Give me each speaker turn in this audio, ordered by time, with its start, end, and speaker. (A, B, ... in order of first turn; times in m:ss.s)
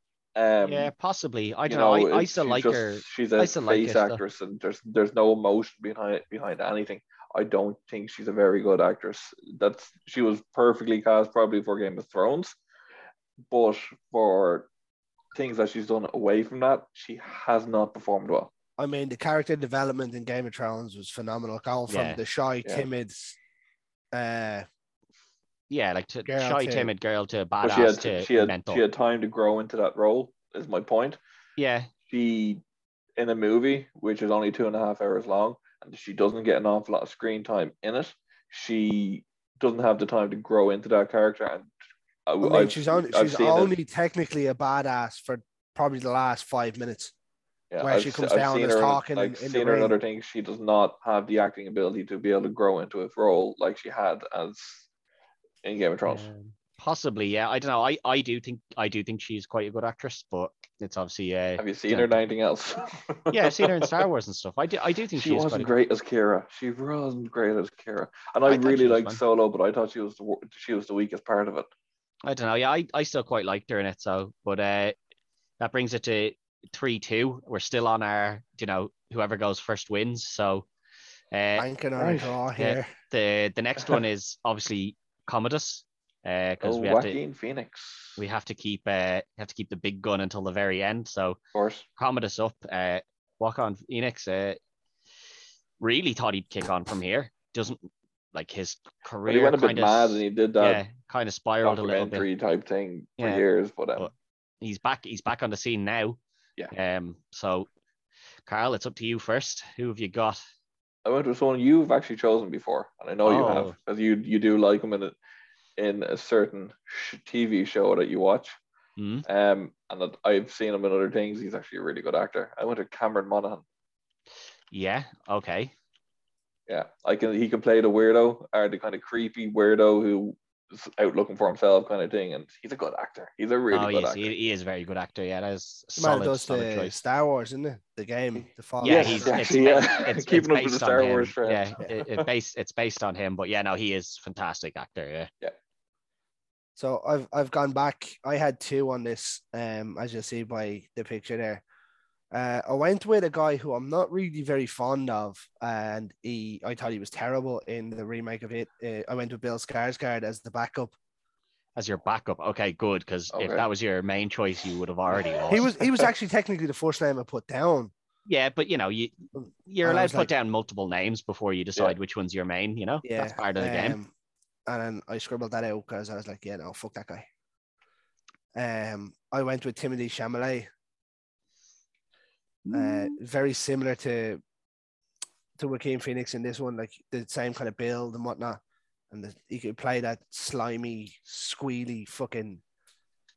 0:00.4-0:00.9 A
0:00.6-0:04.2 B
0:01.7-0:12.6 A
0:13.5-0:14.7 A
0:15.3-0:18.5 A
0:18.8-0:23.4 C
0:21.9-0:22.2 B
0:24.1-0:24.6 C
0:25.7-0:28.8 B
0:26.2-0:26.9 C
0:27.6-0:31.2 A
0:31.6-0:31.9 B
0:32.1-0:32.6 A
0:33.2-0:41.7 A
0:42.3-0:43.7 A
0:42.4-0:47.1 C
0:47.7-0:54.8 A
0:47.8-0:49.9 C
0:55.6-0:56.3 A
0:56.0-1:02.2 B
1:01.6-1:04.0 A
1:03.3-1:05.7 B
1:05.1-1:11.7 A
1:08.4-1:09.2 B
1:12.2-1:15.0 B
1:15.6-1:20.7 B
1:21.3-1:21.7 B
1:21.6-1:22.9 C
1:22.0-1:22.4 A
1:22.6-1:27.2 B
1:26.6-1:28.2 A
1:28.2-1:31.4 B
1:31.5-1:31.8 A
1:32.0-1:34.6 B
1:35.8-1:42.2 B
1:39.2-1:40.8 A
1:41.6-1:44.1 A
1:43.2-1:43.4 B
1:44.0-1:46.2 B
1:46.7-1:47.7 B
1:48.4-1:50.4 B
1:51.0-1:55.1 A
1:53.2-1:53.8 B
1:55.8-1:58.6 A
1:59.0-1:59.2 B
1:59.2-2:03.6 A
2:04.7-2:05.7 B
2:06.7-2:14.3 A
2:13.7-2:17.0 B
2:16.0-2:19.3 C
2:18.8-2:25.3 B
2:18.8-2:22.2 A
2:26.8-2:31.6 C
2:32.3-2:40.9 C
2:41.8-2:45.7 B
2:43.3-2:43.6 A
2:45.5-2:47.9 C
2:45.6-2:46.1 A
2:48.2-2:54.0 B
2:49.8-2:50.3 C
2:53.0-2:54.1 C
2:54.7-2:57.2 C
2:58.5-3:00.7 C
3:02.6-3:03.2 B
3:02.7-3:04.4 C
3:05.6-3:12.6 C